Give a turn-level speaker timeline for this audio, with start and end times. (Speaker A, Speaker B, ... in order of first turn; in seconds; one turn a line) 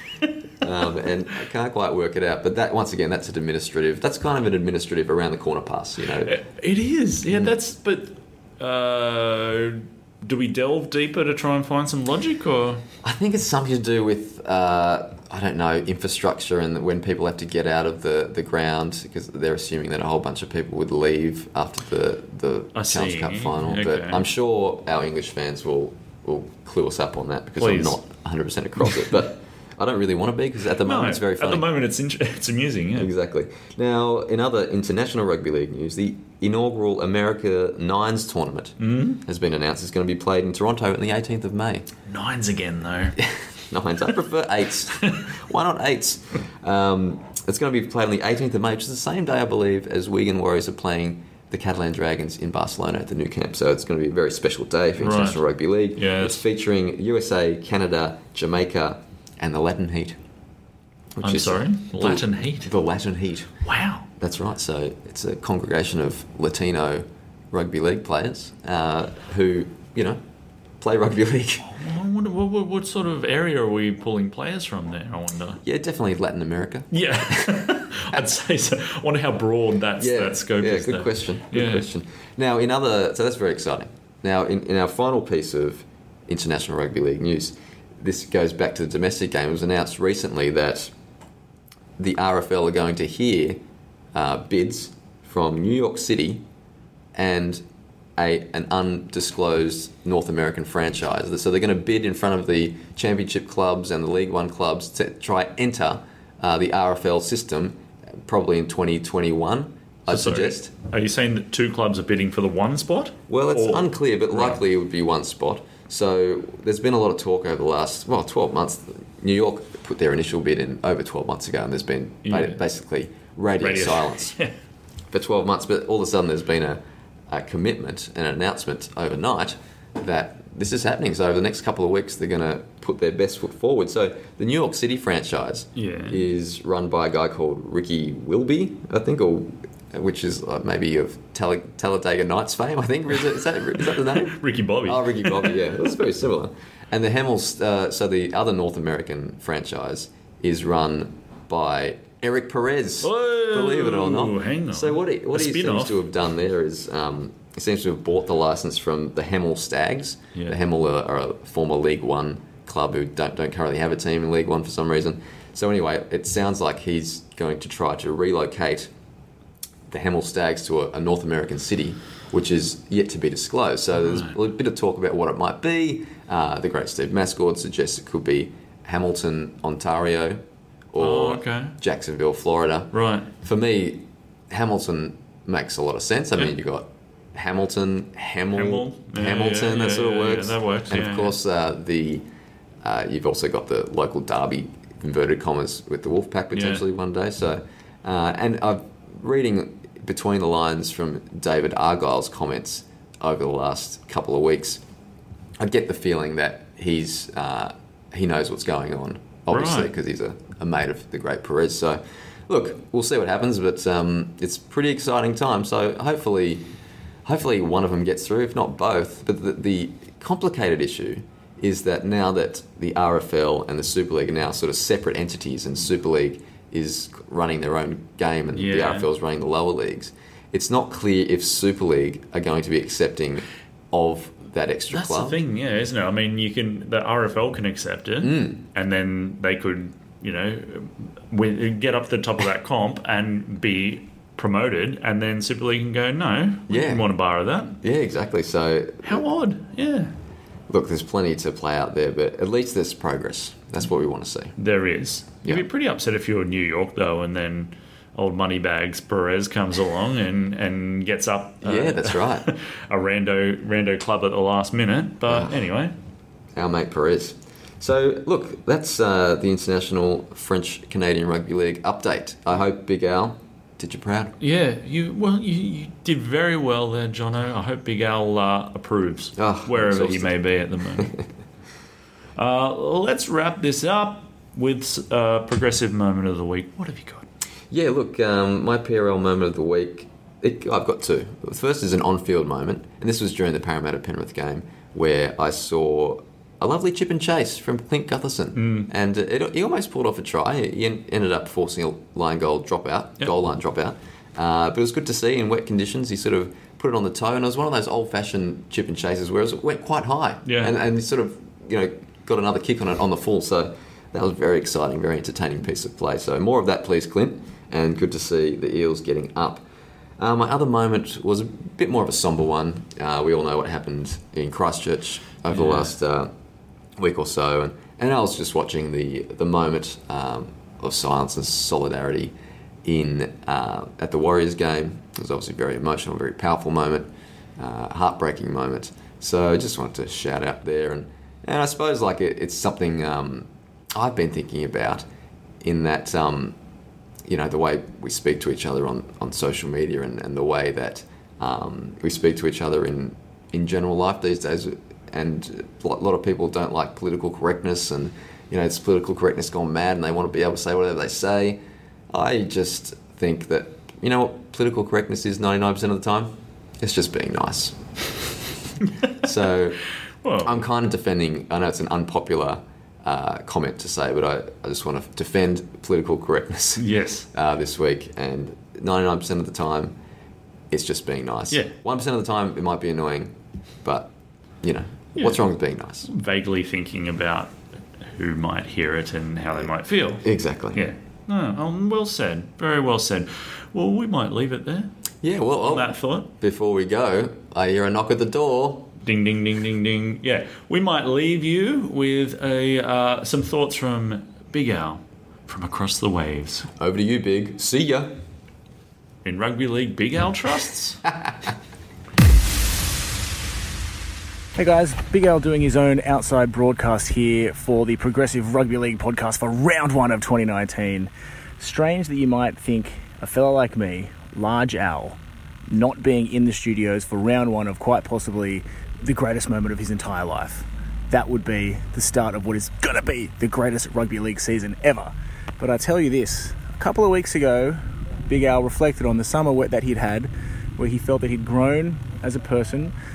Speaker A: 0.6-6.3
Speaker B: 6.3-12.8
Speaker A: 7.3-7.5
Speaker A: 13.0-31.7
Speaker B: 22.7-24.2
Speaker B: 27.6-28.0
Speaker B: 30.9-33.1
Speaker A: 33.0-41.9
Speaker B: 38.8-39.2
Speaker B: 42.1-43.2
Speaker A: 43.2-60.2
Speaker B: 55.0-55.4
Speaker B: 56.0-56.4
Speaker A: 61.2-63.5
Speaker B: 61.2-62.7
Speaker B: 63.6-64.0
Speaker A: 64.1-70.2
Speaker A: 70.8-71.7
Speaker B: 71.7-75.6
Speaker A: 75.6-77.5
Speaker B: 76.9-81.9
Speaker A: 80.0-90.9
Speaker A: 92.0-93.6
Speaker A: 94.1-96.5
Speaker A: 97.2-97.7
Speaker A: 98.2-110.7
Speaker B: 110.1-114.6
Speaker A: 113.3-124.4
Speaker B: 122.2-122.6
Speaker B: 123.6-124.5
Speaker A: 125.1-168.9
Speaker B: 135.8-136.2
Speaker B: 144.1-145.6
Speaker B: 153.0-156.0
Speaker A: 169.9-192.2
Speaker B: 174.0-174.4
Speaker B: 181.0-181.8
Speaker B: 182.9-183.3
Speaker B: 188.6-191.3
Speaker A: 192.8-204.8
Speaker B: 196.5-196.8
Speaker A: 205.6-216.7
Speaker B: 209.5-209.9
Speaker A: 217.2-235.4
Speaker B: 228.5-229.1
Speaker B: 234.9-247.8
Speaker A: 238.2-238.6
Speaker A: 246.7-247.1
Speaker A: 247.8-249.2
Speaker B: 249.0-250.1
Speaker A: 250.7-254.6
Speaker B: 254.6-265.9
Speaker A: 261.6-262.5
Speaker A: 265.3-265.5
Speaker A: 266.5-274.4
Speaker B: 274.4-281.1
Speaker A: 279.4-280.4
Speaker B: 282.4-287.2
Speaker A: 287.7-319.6
Speaker B: 298.6-298.9
Speaker B: 310.4-310.7
Speaker A: 320.2-326.3
Speaker B: 325.5-325.9
Speaker A: 327.0-345.1
Speaker A: 345.6-346.6
Speaker A: 347.3-368.3
Speaker A: 369.2-369.8
Speaker B: 370.2-370.5
Speaker A: 370.4-380.0
Speaker B: 376.8-377.3
Speaker A: 380.7-386.1
Speaker B: 386.1-394.9
Speaker A: 390.2-390.9
Speaker A: 395.2-398.9
Speaker B: 395.6-396.3
Speaker B: 399.0-406.7
Speaker A: 406.8-408.1
Speaker B: 409.2-411.0
Speaker C: 414.6-425.2
Speaker C: 425.7-442.9